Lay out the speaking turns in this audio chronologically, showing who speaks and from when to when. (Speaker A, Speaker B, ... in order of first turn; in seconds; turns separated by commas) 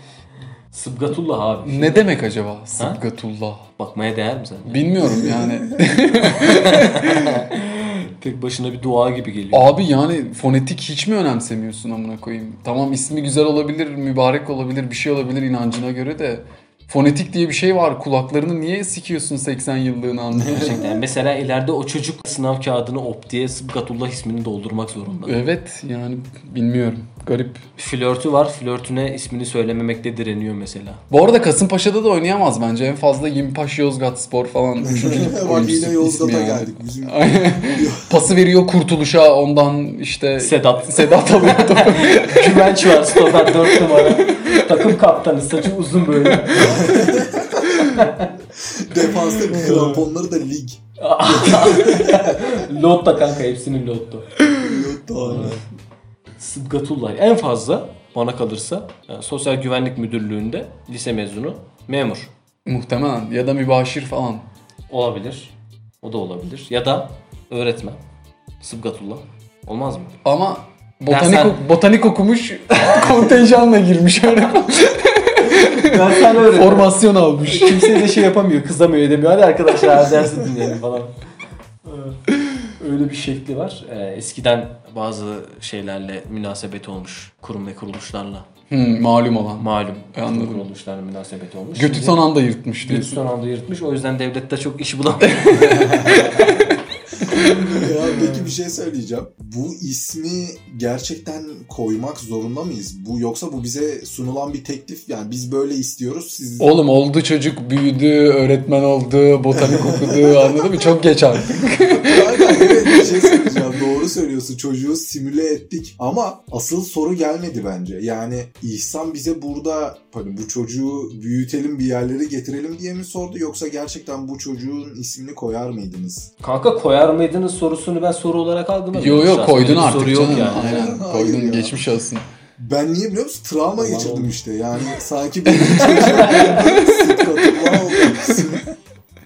Speaker A: 0.7-2.1, Speaker B: 1.6-3.6, Speaker A: 3.8-5.0, Speaker B: 4.7-7.5, Speaker C: 5.2-5.6, Speaker A: 6.3-9.7, Speaker B: 9.5-21.0, Speaker C: 20.4-20.8, Speaker A: 20.5-25.4, Speaker B: 25.2-27.6, Speaker A: 27.8-31.0, Speaker B: 31.1-44.8, Speaker C: 34.8-38.4, Speaker A: 40.4-48.4, Speaker B: 46.3-46.7, Speaker C: 46.6-47.7, Speaker C: 48.6-52.6, Speaker A: 49.0-50.0, Speaker A: 51.0-54.5, Speaker C: 54.6-55.6, Speaker A: 55.2-55.6, Speaker A: 56.4-62.3, Speaker B: 62.7-64.5, Speaker A: 64.9-68.0, Speaker A: 68.6-70.2, Speaker B: 70.2-78.2, Speaker A: 71.1-71.6, Speaker A: 72.8-73.1, Speaker A: 75.6-81.2, Speaker A: 81.9-88.5, Speaker B: 88.7-90.7, Speaker A: 89.6-92.3, Speaker B: 91.8-93.2, Speaker A: 92.8-96.8, Speaker B: 95.5-96.5, Speaker C: 95.8-96.4, Speaker C: 97.3-106.7, Speaker B: 106.6-113.6, Speaker C: 109.5-110.9, Speaker C: 111.5-126.3, Speaker A: 126.4-130.9, Speaker B: 128.9-132.2, Speaker C: 130.2-131.8, Speaker C: 132.6-138.8, Speaker A: 133.8-134.3, Speaker B: 135.5-138.5, Speaker A: 136.0-136.6